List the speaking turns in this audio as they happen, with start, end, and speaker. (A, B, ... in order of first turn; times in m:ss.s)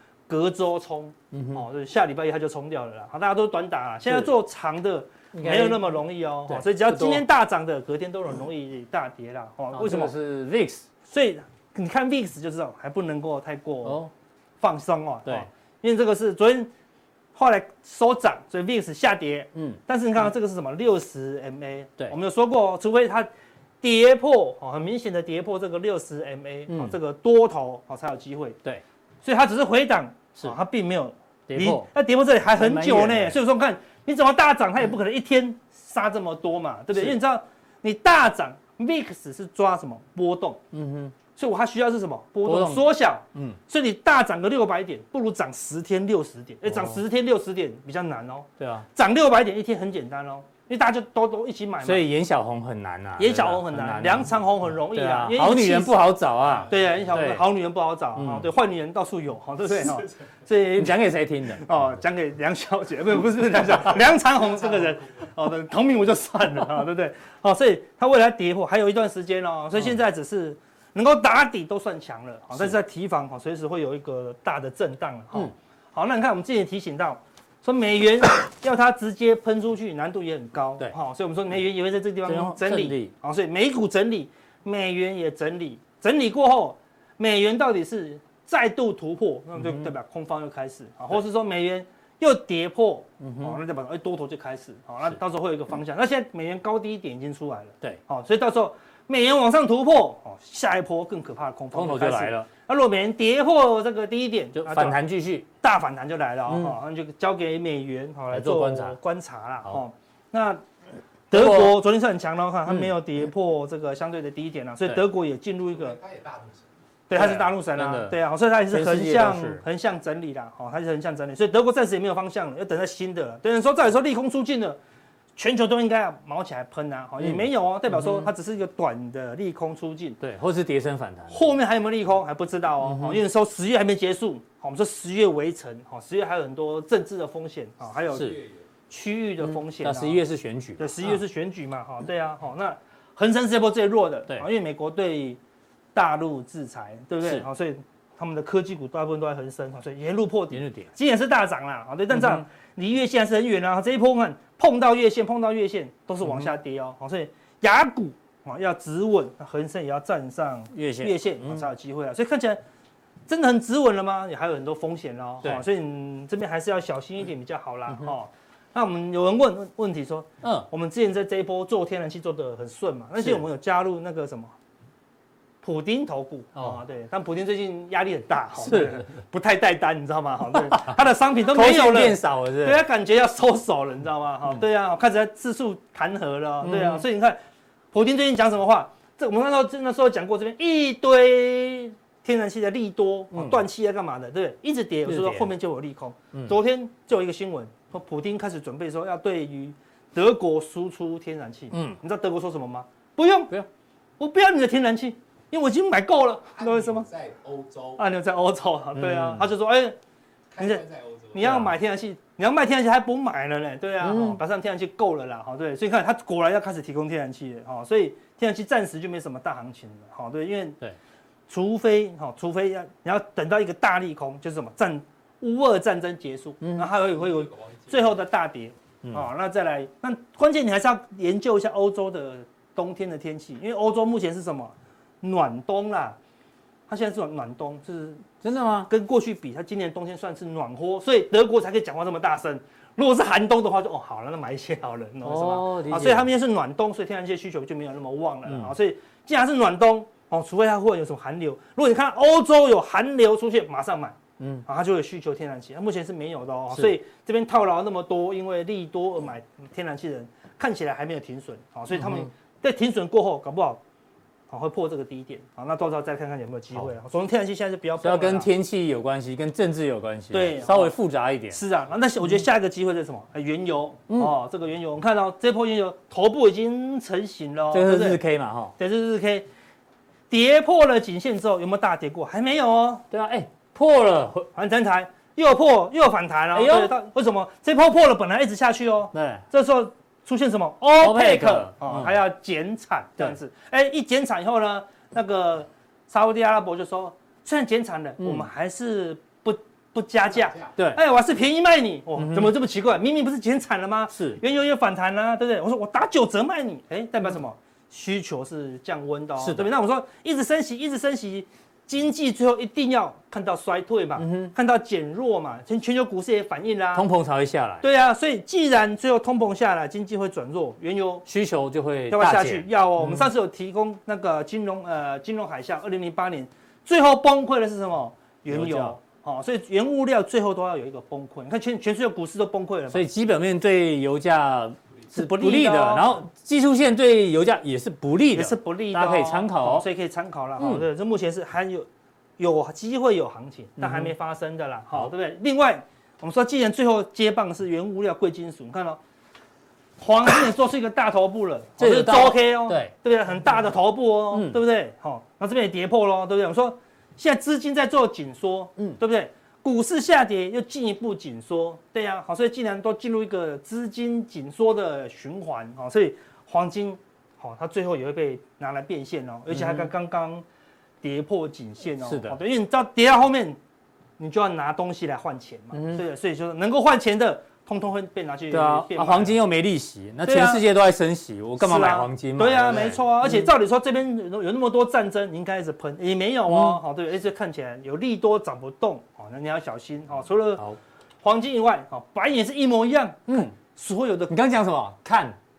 0:00.3-0:10.1 A
0:01.3-0:01.6 B
0:04.1-0:04.3 B
0:05.3-0:07.2 B
0:09.7-0:10.9 B
0:11.1-0:14.0 A
0:13.8-0:14.1 B
0:14.6-0:16.7 A
0:17.4-0:23.3 A
0:23.8-0:28.6 A
0:26.7-0:27.0 B
0:29.2-0:40.6 A
0:31.5-0:31.9 B
0:32.6-0:33.4 B
0:40.7-0:41.2 B
0:41.4-0:52.1 A
0:42.4-0:43.6 B
0:46.6-0:47.0 B
0:48.6-0:48.9 B
0:51.8-0:54.3 B
0:53.2-0:56.0 A
0:54.9-0:57.4 B
0:56.7-1:01.0 A
0:58.2-0:58.5 B
1:00.8-1:01.9 B
1:01.6-1:45.0 A
1:22.3-1:23.1 B
1:29.6-1:29.9 B
1:33.2-1:33.6 B
1:41.7-1:42.5 B
1:44.6-1:45.5 B
1:45.6-1:50.6 A
1:46.5-1:46.8 B
1:48.3-1:49.0 B
1:51.3-1:56.0 A
1:51.3-1:51.8 B
1:52.7-1:52.9 B
1:55.7-1:56.7 C
1:57.1-2:04.8 A
1:57.1-1:58.2 B
1:58.7-1:59.6 B
2:05.4-2:10.2 A
2:07.2-2:08.3 B
2:10.2-2:11.5 B
2:11.3-2:18.4 A
2:12.8-2:13.2 B
2:18.1-2:18.4 B
2:18.1-2:18.6 C
2:18.9-2:20.2 A
2:19.4-2:21.2 B
2:20.8-2:25.4 A
2:26.0-2:42.6 A
2:30.5-2:30.9 B
2:32.1-2:32.4 B
2:36.2-2:36.5 B
2:40.7-2:41.7 B
2:43.3-2:54.5 A
2:50.4-2:50.7 B
2:55.6-3:07.4 A
2:58.6-2:59.0 B
3:01.4-3:02.8 B
3:06.6-3:07.0 B
3:07.9-3:23.5 A
3:13.3-3:13.6 B
3:15.1-3:15.5 B
3:21.7-3:22.0 B
3:24.2-3:27.1 A
3:26.6-3:28.0 C
3:28.0-3:30.0 A
3:29.0-3:29.5 B
3:30.5-3:31.6 C
3:30.6-3:40.8 A
3:31.4-3:31.7 B
3:34.0-3:34.4 B
3:41.5-3:56.2 A
3:46.6-3:46.9 B
3:56.9-3:58.3 A
3:58.4-3:58.9 B
3:58.9-4:23.8 A
4:05.2-4:06.3 B
4:08.5-4:08.7 B
4:14.4-4:14.6 B
4:21.9-4:22.3 B
4:24.5-4:28.5 A
4:28.0-4:31.6 B
4:30.3-4:31.0 A
4:31.5-4:38.2 A
4:37.7-4:38.7 B
4:38.8-4:39.5 A
4:40.3-4:43.0 A
4:43.1-4:44.5 B
4:44.6-5:17.1 A
4:46.5-4:46.9 B
4:49.1-4:49.4 B
4:51.0-4:52.2 B
4:58.2-4:58.5 B
5:00.3-5:00.7 C
5:00.8-5:01.0 B
5:02.2-5:02.5 B
5:04.1-5:04.4 B
5:09.4-5:09.7 B
5:14.2-5:14.5 B
5:16.9-5:17.8 B
5:17.8-5:21.3 A
5:21.3-5:23.3 B
5:22.1-5:33.1 A
5:28.5-5:29.0 B
5:32.9-5:39.9 B
5:35.1-5:36.2 A
5:38.3-5:49.0 A
5:40.6-5:40.8 B
5:43.8-5:44.1 B
5:50.0-6:10.4 A
5:51.8-5:52.9 B
5:54.3-5:54.6 B
6:09.5-6:09.9 B
6:11.0-6:13.6 A
6:12.0-6:12.4 B
6:14.2-6:19.4 A
6:15.7-6:16.0 B
6:18.5-6:23.5 B
6:20.2-6:20.6 A
6:21.6-6:30.6 A
6:26.5-6:26.8 B
6:31.2-6:34.4 A
6:33.3-6:33.5 B
6:34.3-6:35.4 B